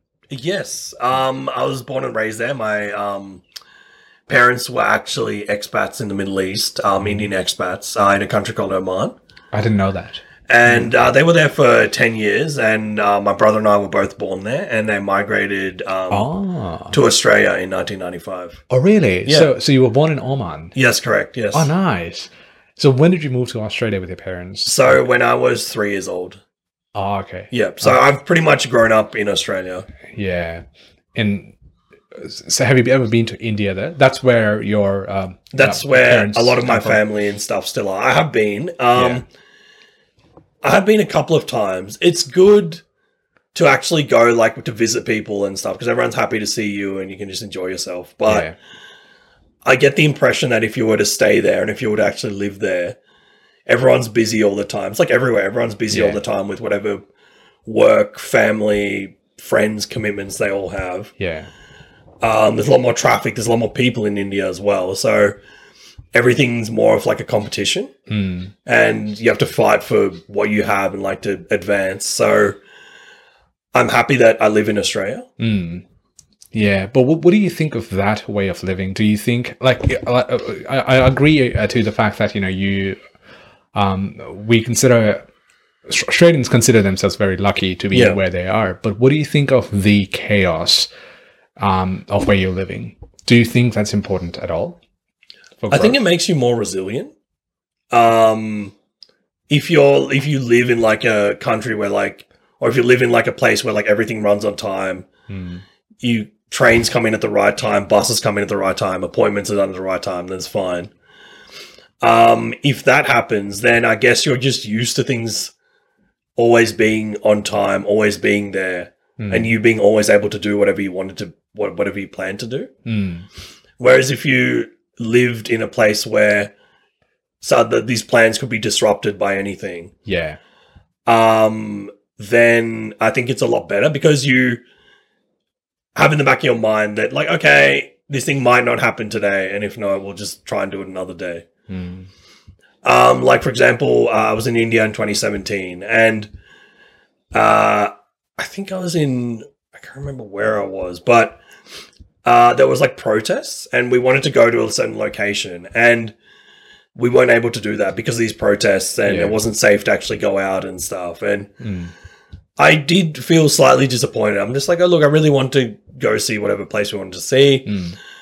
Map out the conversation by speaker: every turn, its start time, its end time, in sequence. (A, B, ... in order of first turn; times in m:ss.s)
0:00.3-0:03.4 A
0:04.3-0:09.2 A
0:07.0-0:07.3 B
0:09.5-0:10.9 B
0:10.5-0:16.3 A
0:16.1-0:17.0 B
0:16.9-0:18.6 A
0:18.7-0:20.7 B
0:20.7-0:21.7 A
0:21.5-0:25.0 B
0:24.6-0:26.4 A
0:26.9-0:28.0 B
0:27.5-0:29.8 A
0:30.1-0:31.5 B
0:32.1-0:37.0 B
0:35.5-0:39.2 A
0:39.0-0:39.2 B
0:40.6-0:42.8 A
0:43.5-0:48.5 A
0:48.2-0:48.6 B
0:49.6-0:53.0 A
0:53.7-0:57.0 A
0:55.9-0:56.2 B
0:57.6-1:01.1 A
1:01.2-1:01.5 B
1:02.2-1:05.4 A
1:06.1-1:07.9 A
1:08.1-1:08.5 B
1:08.6-1:12.6 A
1:13.7-1:15.3 A
1:15.4-1:15.8 B
1:16.5-1:23.0 B
1:23.7-1:25.3 B
1:25.9-1:30.9 B
1:27.9-1:28.2 A
1:31.6-1:34.8 B
1:35.6-1:36.0 B
1:35.7-1:37.1 A
1:37.9-1:38.7 A
1:39.5-1:45.1 A
1:45.3-1:45.6 B
1:46.0-1:50.9 A
1:52.0-1:55.5 A
1:56.4-2:02.7 A
1:59.2-1:59.5 B
2:02.8-2:03.3 B
2:03.8-2:06.5 A
2:07.4-2:09.9 A
2:10.0-2:10.4 B
2:11.1-2:14.6 A
2:15.9-2:21.4 A
2:21.7-2:22.1 B
2:22.8-2:26.3 A
2:27.3-2:31.4 A
2:32.2-2:36.1 A
2:37.0-2:41.5 A
2:39.1-2:39.4 B
2:41.6-2:41.9 B
2:42.6-2:47.7 A
2:47.6-2:48.0 B